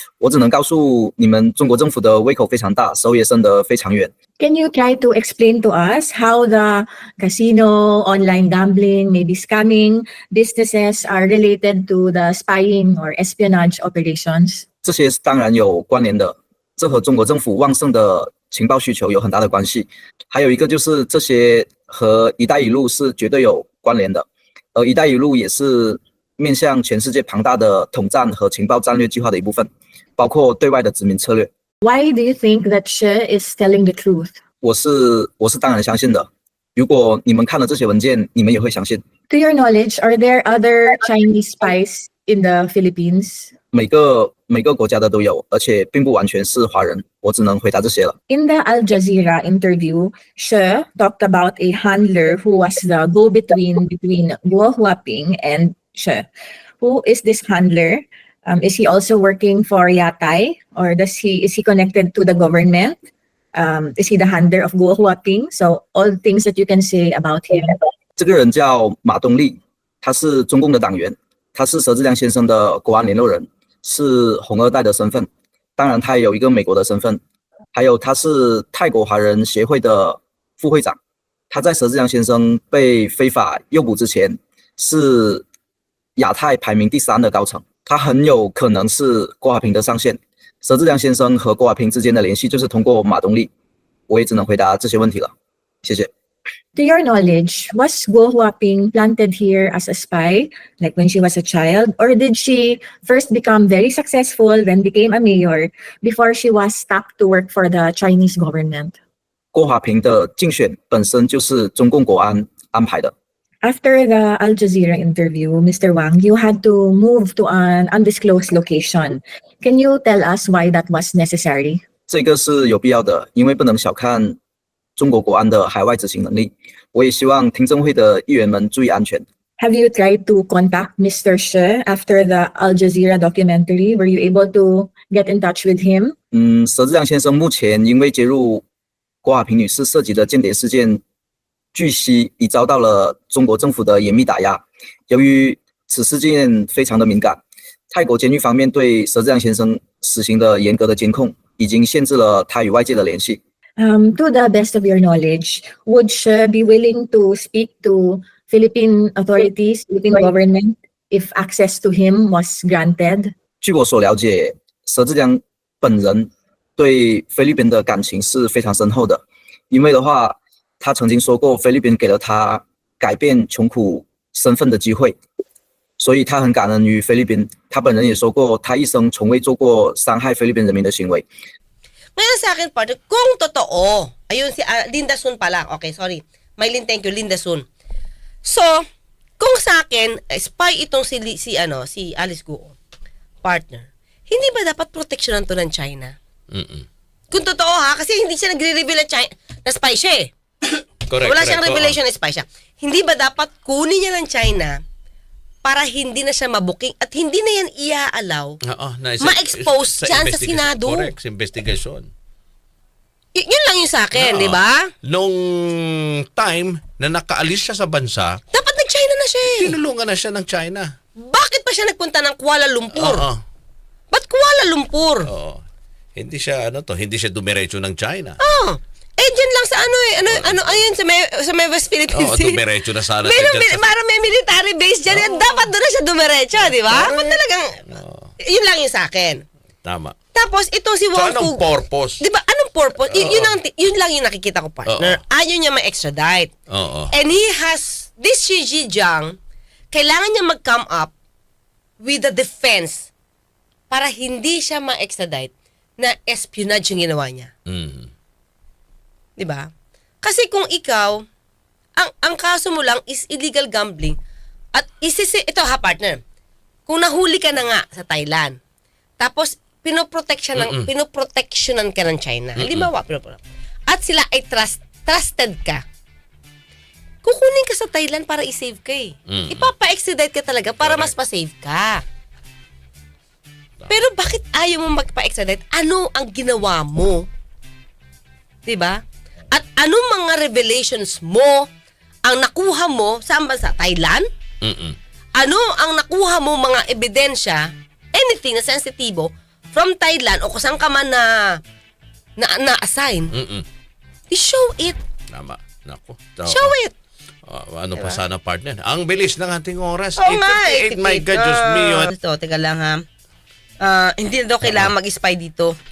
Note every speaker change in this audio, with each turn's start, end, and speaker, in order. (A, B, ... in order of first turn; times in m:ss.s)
0:00.2-0:04.1 A
0:04.4-0:14.6 B
0:14.8-0:31.5 A
0:31.8-0:34.3 B
0:34.6-0:39.0 A
0:39.3-0:43.5 B
0:43.7-0:48.1 A
0:48.3-0:56.2 B
0:56.8-1:03.0 B
1:03.5-1:07.8 B
1:08.2-1:17.2 A
1:17.7-1:21.0 A
1:21.5-1:25.4 A
1:26.2-1:33.5 A
1:34.1-1:35.3 A
1:35.8-1:36.1 A
1:36.7-1:48.9 B
1:49.5-1:53.1 A
1:53.6-2:01.8 B
2:02.1-2:04.4 A
2:05.0-2:09.2 A
2:09.6-2:16.1 B
2:16.3-2:18.6 A
2:19.2-2:21.0 A
2:21.7-2:33.4 A
2:33.8-2:43.3 B
2:43.6-2:55.2 A
2:56.0-3:01.2 A
3:02.2-3:07.6 C
3:08.4-3:08.7 C
3:09.4-3:12.8 C
3:13.4-3:16.1 C
3:16.5-3:16.8 D
3:17.3-3:24.8 C
3:21.1-3:22.0 D
3:25.6-3:28.5 C
3:28.6-3:32.1 D
3:29.2-3:31.1 C
3:33.4-3:34.9 C
3:34.1-3:38.4 D
3:38.5-3:39.8 C
3:39.5-3:40.9 D
3:41.2-3:43.3 C
3:43.0-3:43.4 D
3:44.1-3:45.2 C
3:45.3-3:45.6 D
3:46.1-3:48.4 D
3:48.4-3:52.6 C
3:50.2-3:50.8 D
3:52.1-3:53.9 D
3:53.2-3:57.7 C
3:56.9-3:57.4 D
3:57.9-3:58.3 D
3:58.4-3:59.4 C
3:59.8-4:00.1 D
4:00.3-4:01.6 C
4:01.1-4:02.2 D
4:02.2-4:06.5 C
4:03.0-4:03.5 D
4:04.8-4:05.2 D
4:06.7-4:07.1 D
4:07.1-4:09.3 C
4:09.9-4:11.1 C
4:12.0-4:13.1 C
4:13.9-4:17.5 C
4:17.7-4:18.1 D
4:19.4-4:19.6 C
4:20.2-4:21.2 C
4:22.0-4:24.2 C
4:24.8-4:26.2 C
4:26.9-4:28.6 C
4:29.2-4:35.8 C
4:30.6-4:30.9 D
4:32.6-4:32.9 D
4:37.2-4:42.0 C
4:39.3-4:39.7 D
4:40.8-4:41.1 D
4:43.9-4:47.3 C
4:48.6-4:49.0 C
4:49.5-4:51.6 C
4:52.3-4:54.2 C
4:54.6-4:55.0 D
4:55.4-4:57.6 C
4:58.1-5:01.3 C
5:02.4-5:03.3 C
5:03.3-5:03.6 D
5:04.3-5:05.0 C
5:05.3-5:06.7 D
5:06.4-5:06.9 C
5:07.5-5:12.1 D
5:07.9-5:08.2 C
5:10.2-5:13.0 C
5:13.8-5:15.8 C
5:14.6-5:14.9 D